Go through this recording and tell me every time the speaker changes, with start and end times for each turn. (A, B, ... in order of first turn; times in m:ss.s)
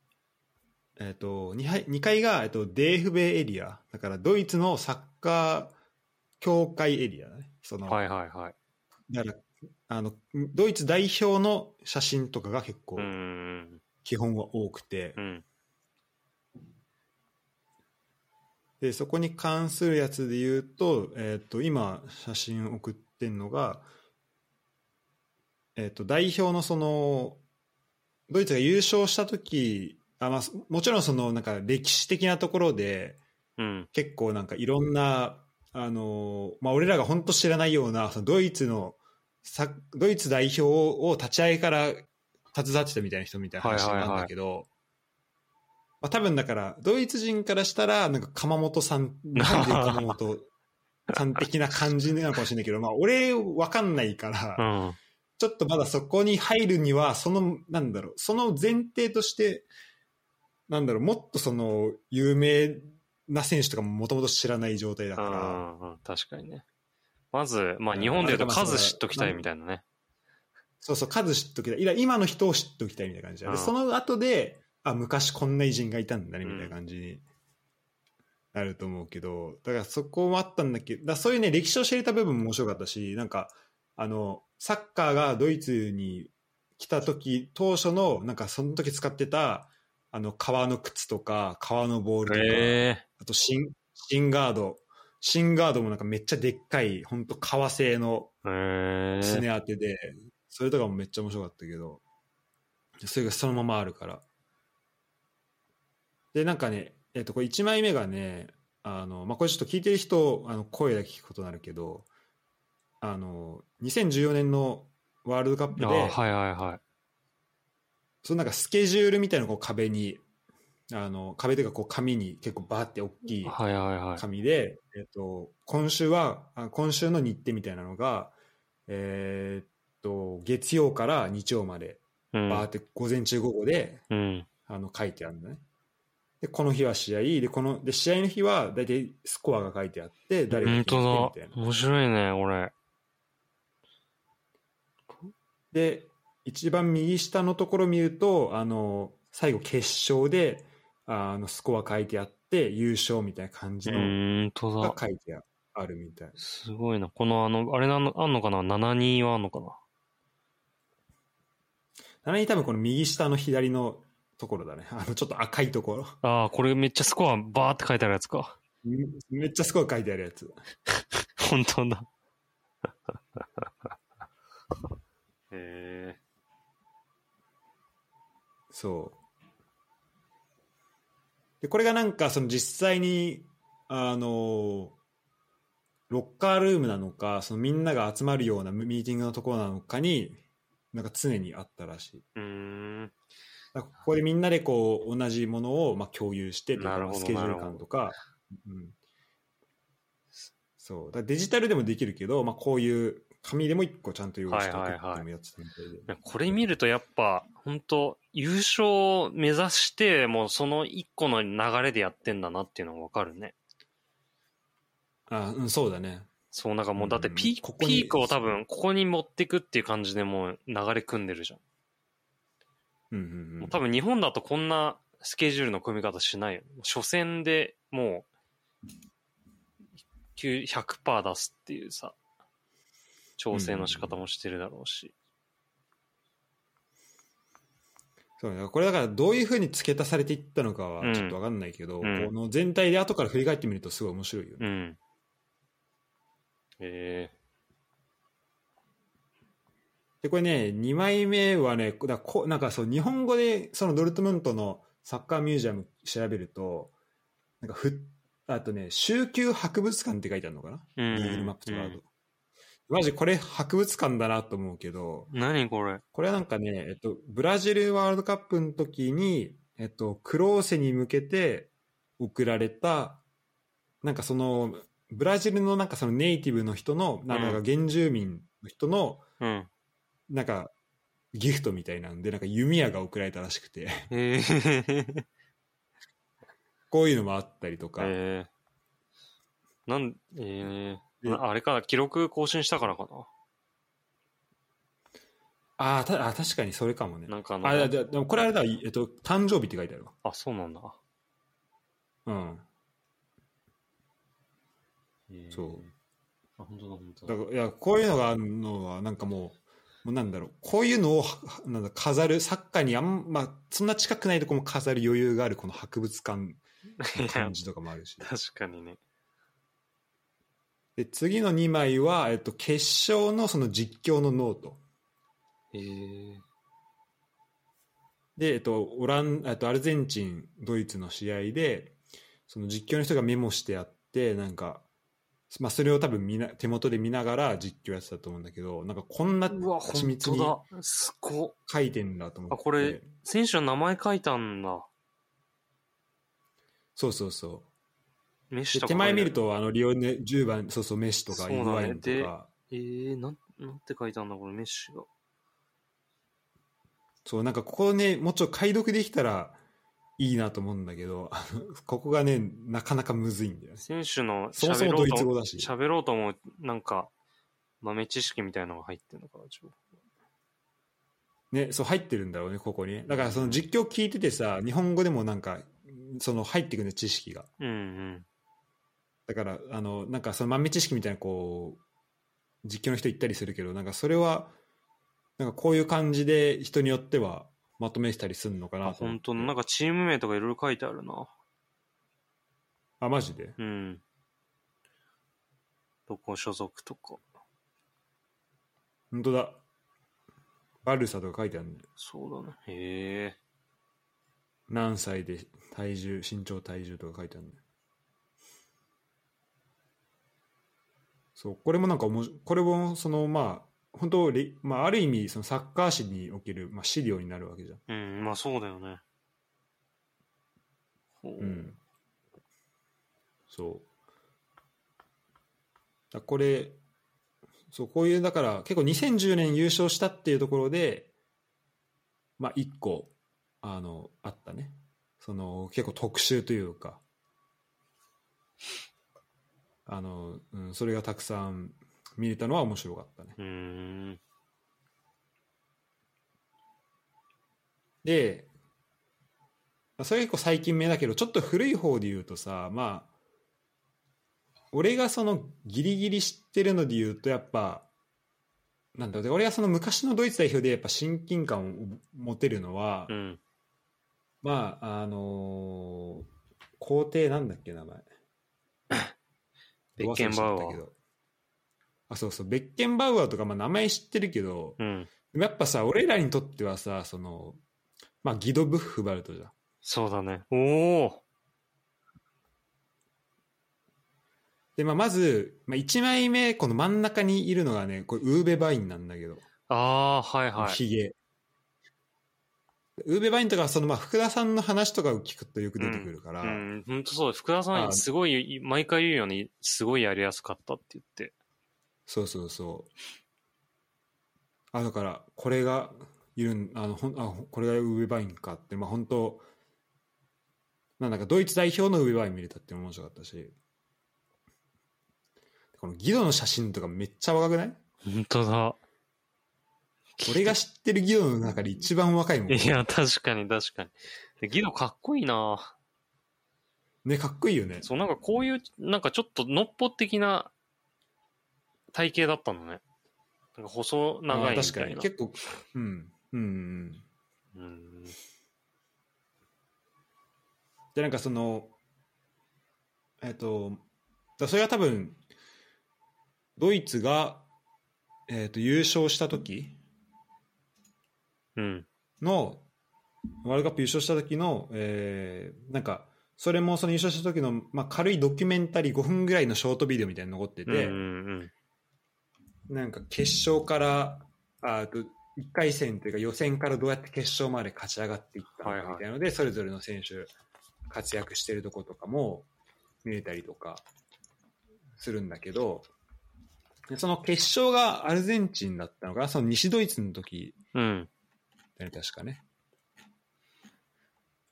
0:01.0-0:05.7 A
0:06.4-0:08.0 A
0:07.9-0:08.5 B
0:09.1-0:13.1 A
0:13.0-0:13.8 B
0:14.0-0:15.2 A
0:15.2-0:15.4 B
0:18.8-0:23.9 A
0:25.8-0:27.4 A
0:28.3-0:33.2 A
0:33.6-0:33.9 B
0:33.9-0:44.7 A
0:43.6-0:44.3 B
0:46.0-0:50.5 A
0:49.3-0:50.1 B
0:51.1-0:54.6 A
0:54.6-0:55.0 B
0:55.4-0:59.7 A
1:00.7-1:05.6 A
1:05.2-1:06.6 B
1:07.3-1:09.8 B
1:07.9-1:09.4 A
1:10.8-1:17.2 A
1:13.4-1:13.7 B
1:16.4-1:16.7 B
1:18.5-1:38.3 A
1:32.2-1:33.0 B
1:38.4-1:39.4 B
1:39.2-1:42.0 A
1:43.0-1:44.2 A
1:46.3-1:52.1 A
1:53.0-1:56.2 A
1:55.8-1:56.8 B
1:58.2-2:00.2 A
2:00.9-2:03.6 A
2:03.4-2:04.2 B
2:04.2-2:08.3 A
2:08.9-2:14.0 A
2:12.3-2:12.7 B
2:14.1-2:14.5 B
2:14.7-2:15.6 A
2:16.4-2:21.6 A
2:20.5-2:22.7 B
2:25.7-2:34.2 A
2:33.8-2:35.0 B
2:34.8-2:36.4 A
2:36.4-2:39.8 B
2:42.2-2:46.2 A
2:46.2-2:48.6 B
2:48.8-2:50.5 A
2:51.4-2:52.1 B
2:53.1-2:53.9 B
2:55.5-2:56.2 B
2:58.7-2:59.2 A
3:01.6-3:05.0 A
3:06.1-3:10.4 A
3:10.9-3:12.2 A
3:12.3-3:13.1 B
3:13.7-3:19.0 A
3:16.8-3:17.8 B
3:20.8-3:26.1 A
3:24.5-3:25.2 B
3:26.1-3:33.5 B
3:35.3-3:36.3 A
3:36.5-3:41.6 B
3:37.0-3:38.4 A
3:43.1-3:43.8 A
3:43.6-3:48.2 B
3:50.4-3:52.2 B
3:53.4-3:55.1 B
3:53.5-3:54.2 A
3:58.4-4:04.6 A
4:01.0-4:01.4 B
4:02.0-4:02.3 B
4:04.6-4:05.0 B
4:06.8-4:07.3 B
4:10.2-4:16.9 A
4:17.6-4:22.0 A
4:21.0-4:22.0 B
4:22.9-4:25.3 A
4:25.3-4:26.0 B
4:26.1-4:33.2 A
4:34.0-4:39.2 A
4:37.3-4:37.6 B
4:39.4-4:39.7 B
4:40.3-4:40.7 A
4:41.3-4:44.1 A
4:44.1-4:45.2 B
4:46.9-4:48.1 A
4:48.0-4:48.5 B
4:49.8-4:53.3 B
4:55.8-5:00.1 A
4:57.3-4:57.9 B
5:00.2-5:01.0 B
5:02.2-5:02.6 A
5:05.3-5:05.9 B
5:05.5-5:05.8 A
5:06.6-5:07.4 B
5:07.3-5:16.6 A
5:17.0-5:17.5 B
5:17.2-5:18.3 A
5:18.2-5:19.0 B
5:21.0-5:24.8 A
5:25.7-5:26.4 B
5:28.4-5:32.0 A
5:32.5-5:34.8 A
5:35.5-5:40.6 A
5:39.5-5:41.6 B
5:41.7-5:43.1 A
5:42.5-5:44.9 B
5:47.0-5:47.7 A
5:48.5-5:49.4 B
5:48.7-5:52.5 A
5:51.3-5:55.1 B
5:57.2-5:59.6 A
6:00.2-6:03.8 A
6:03.8-6:07.1 B
6:04.5-6:05.7 A
6:07.8-6:09.8 B
6:11.5-6:17.5 A
6:13.1-6:13.6 B
6:17.6-6:18.2 B
6:19.3-6:21.8 A
6:22.6-6:24.5 A
6:25.4-6:29.5 A
6:28.8-6:31.3 B
6:33.0-6:33.6 A
6:33.6-6:34.0 B
6:36.1-6:37.2 B
6:39.1-6:39.6 A
6:40.8-6:41.9 A
6:42.0-6:43.4 B
6:44.7-6:47.6 A
6:51.4-6:57.8 A
6:57.9-6:59.0 B
7:01.2-7:01.7 B
7:01.4-7:01.8 A
7:03.5-7:03.9 A
7:06.1-7:06.8 A
7:07.7-7:11.1 A
7:12.4-7:17.0 A
7:19.8-7:23.4 A
7:23.4-7:24.2 B
7:28.0-7:28.5 A
7:30.0-7:33.1 A
7:34.7-7:37.9 A
7:38.9-7:43.1 A
7:43.1-7:43.4 B
7:44.4-7:46.3 A
7:46.8-7:48.0 A
7:50.0-7:50.8 B
7:50.0-7:50.9 A
7:52.1-7:54.8 A
7:54.8-7:55.1 B
7:55.3-7:57.6 A
7:58.2-7:59.5 A
7:59.8-8:01.2 B
8:04.8-8:09.4 A
8:09.7-8:10.8 B
8:10.6-8:11.1 A
8:13.0-8:16.6 A
8:15.8-8:21.3 B
8:17.7-8:18.0 A
8:22.1-8:22.9 A
8:24.7-8:29.4 A
8:31.0-8:33.5 A
8:35.7-8:37.8 A
8:38.0-8:38.8 B
8:40.2-8:40.6 B
8:40.2-8:42.8 A
8:42.5-8:45.7 B
8:47.0-8:47.9 A
8:47.8-8:50.5 B
8:51.9-8:52.8 B
8:53.6-8:55.1 B
8:54.3-8:57.0 A
8:57.5-8:58.2 B
9:00.9-9:01.7 A
9:03.2-9:03.8 A
9:04.4-9:05.2 A
9:06.6-9:07.5 A
9:08.3-9:09.8 A
9:11.6-9:11.8 B
9:12.2-9:12.7 A
9:13.4-9:21.0 A
9:20.6-9:21.5 B
9:22.7-9:30.3 A
9:28.6-9:29.0 B
9:30.9-9:32.5 A
9:33.0-9:33.8 A
9:35.0-9:35.9 A
9:36.9-9:40.6 A
9:40.7-9:41.1 B
9:41.8-9:42.4 A